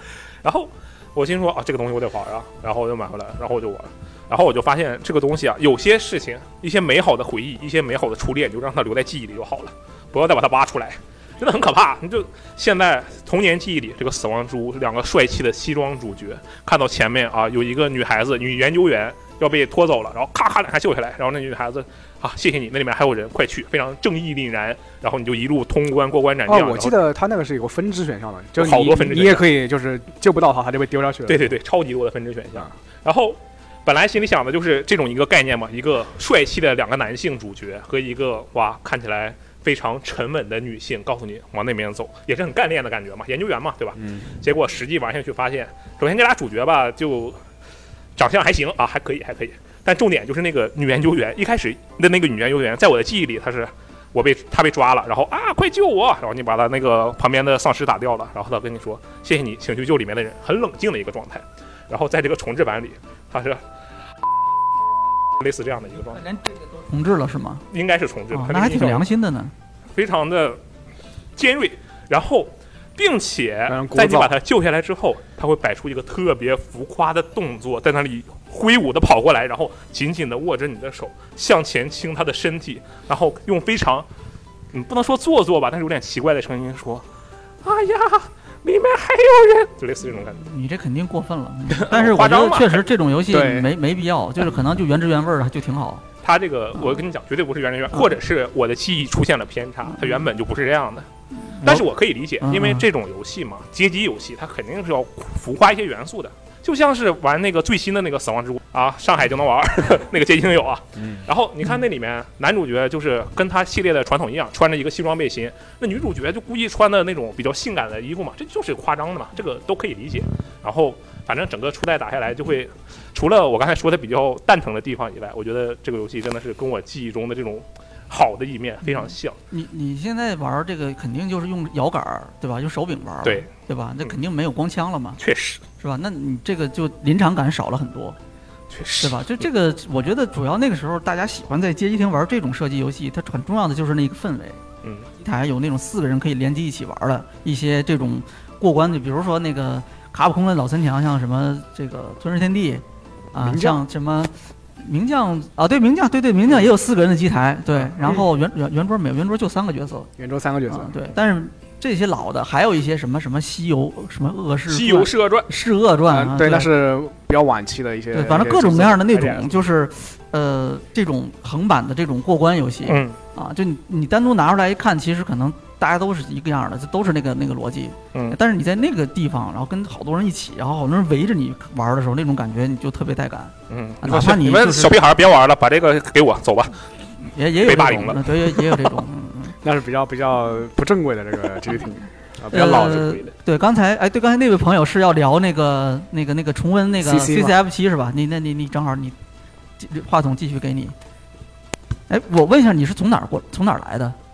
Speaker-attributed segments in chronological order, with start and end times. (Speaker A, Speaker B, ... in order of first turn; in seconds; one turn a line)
Speaker A: 0.4-27.0
Speaker B: 26.5-31.5
Speaker A: 28.6-29.5
Speaker A: 31.3-47.4
Speaker B: 44.0-44.3
Speaker A: 48.2-63.6
Speaker A: 65.4-66.2
Speaker C: 66.2-67.6
Speaker A: 67.7-69.1
Speaker C: 68.3-69.5
Speaker A: 69.9-70.6
Speaker A: 71.4-84.0
Speaker B: 73.7-74.3
Speaker A: 84.7-87.0
Speaker A: 87.6-90.4
Speaker C: 90.4-96.0
Speaker A: 91.8-92.8
Speaker B: 93.3-93.7
Speaker A: 96.2-101.0
Speaker C: 99.9-100.2
Speaker C: 101.5-101.8
Speaker A: 101.6-129.4
Speaker C: 102.4-102.9
Speaker B: 111.0-111.2
Speaker C: 128.8-135.2
Speaker A: 135.2-135.6
Speaker C: 135.8-138.2
Speaker A: 138.7-139.4
Speaker C: 139.0-144.6
Speaker A: 144.8-145.1
Speaker C: 145.2-152.8
Speaker C: 153.3-160.1
Speaker B: 153.4-153.8
Speaker B: 157.8-158.2
Speaker B: 160.2-160.9
Speaker C: 160.7-166.7
Speaker A: 164.7-165.5
Speaker B: 166.1-169.5
Speaker C: 168.1-184.9
Speaker A: 172.9-173.2
Speaker A: 183.7-186.8
Speaker C: 187.3-189.5
Speaker A: 187.6-188.8
Speaker B: 189.6-193.3
Speaker C: 192.5-199.1
Speaker B: 197.0-197.6
Speaker C: 199.8-200.9
Speaker C: 202.1-204.2